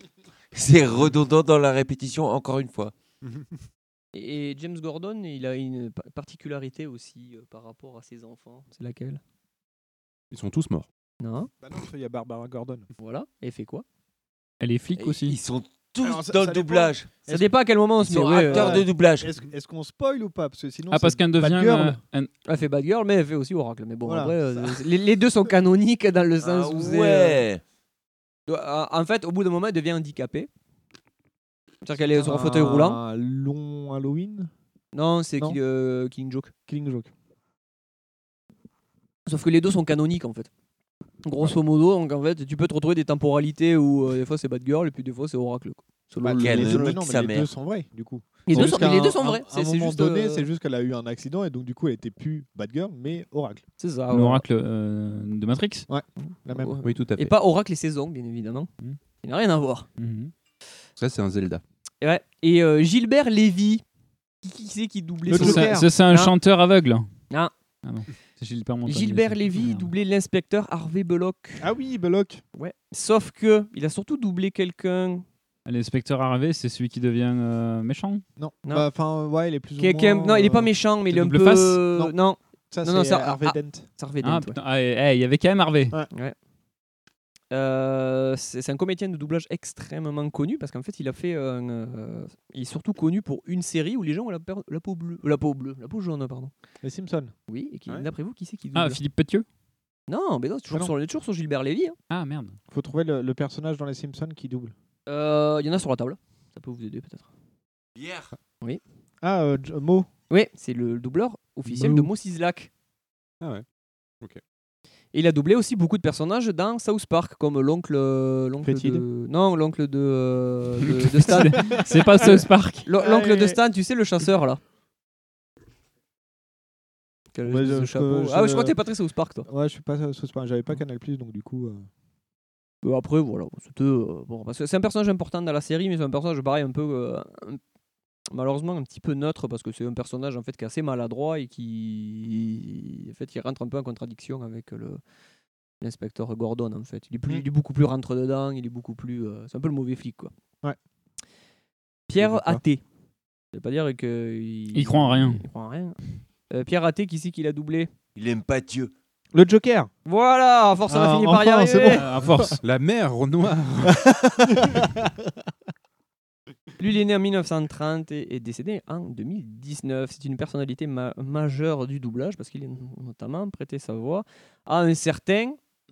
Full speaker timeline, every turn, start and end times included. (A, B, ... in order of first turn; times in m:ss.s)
0:00.5-0:02.9 A
0:04.1-0:09.2 B
0:10.3-0:10.9 C
0:11.2-0:11.5 B
0:11.6-0:12.9 D
0:13.0-0:13.8 B
0:14.6-0:15.4 E
0:15.0-0:17.2 A
0:16.0-0:17.5 D
0:17.2-0:18.9 B
0:18.1-0:19.3 A
0:18.2-0:22.0 D
0:20.9-0:22.3 E
0:22.4-0:27.4 B
0:24.0-0:24.8 D
0:26.4-0:27.6 A
0:28.5-0:30.5 B
0:31.8-0:33.0 B
0:32.0-0:34.5 D
0:34.9-0:36.5 B
0:36.7-0:37.1 D
0:39.3-0:40.5 B
0:41.2-0:47.0 B
0:46.2-0:53.6 D
0:46.4-0:47.5 A
0:48.5-0:50.5 B
0:53.8-0:54.4 B
0:54.1-0:55.9 E
0:55.9-0:56.8 D
0:56.2-0:58.7 B
0:56.8-0:57.4 C
0:59.2-0:59.9 B
1:00.0-1:00.3 E
1:01.0-1:01.6 C
1:02.0-1:03.8 B
1:04.4-1:06.3 B
1:05.3-1:05.9 D
1:05.3-1:07.1 E
1:07.8-1:09.9 E
1:08.9-1:11.7 B
1:11.6-1:12.4 D
1:12.6-1:15.2 B
1:15.7-1:18.2 E
1:18.4-1:20.7 D
1:19.8-1:24.6 B
1:21.1-1:21.8 E
1:22.7-1:23.9 D
1:24.2-1:26.0 E
1:27.5-1:36.5 B
1:36.8-1:37.3 D
1:37.5-1:39.0 B
1:38.7-1:39.4 E
1:40.1-1:42.0 B
1:42.1-1:42.6 E
1:42.7-1:44.7 D
1:45.1-1:47.3 B
1:48.0-1:48.3 A
1:49.2-1:50.1 D
1:50.3-1:52.7 B
1:55.1-2:04.6 B
1:58.6-1:59.0 D
2:01.1-2:02.9 E
2:01.5-2:01.8 D
2:03.0-2:03.6 D
2:07.3-2:09.5 B
2:07.4-2:08.8 D
2:09.5-2:11.9 D
2:12.8-2:17.6 B
2:18.3-2:25.0 B
2:25.8-2:30.3 B
2:32.1-2:32.8 B
2:32.2-2:32.6 D
2:33.5-2:36.0 B
2:34.7-2:35.5 E
2:36.5-2:37.9 B
2:38.2-2:38.9 A
2:39.3-2:39.9 D
2:40.1-2:42.1 B
2:40.9-2:42.6 D
2:41.9-2:42.6 E
2:42.6-2:44.1 C
2:43.8-2:45.2 D
2:46.8-2:55.6 B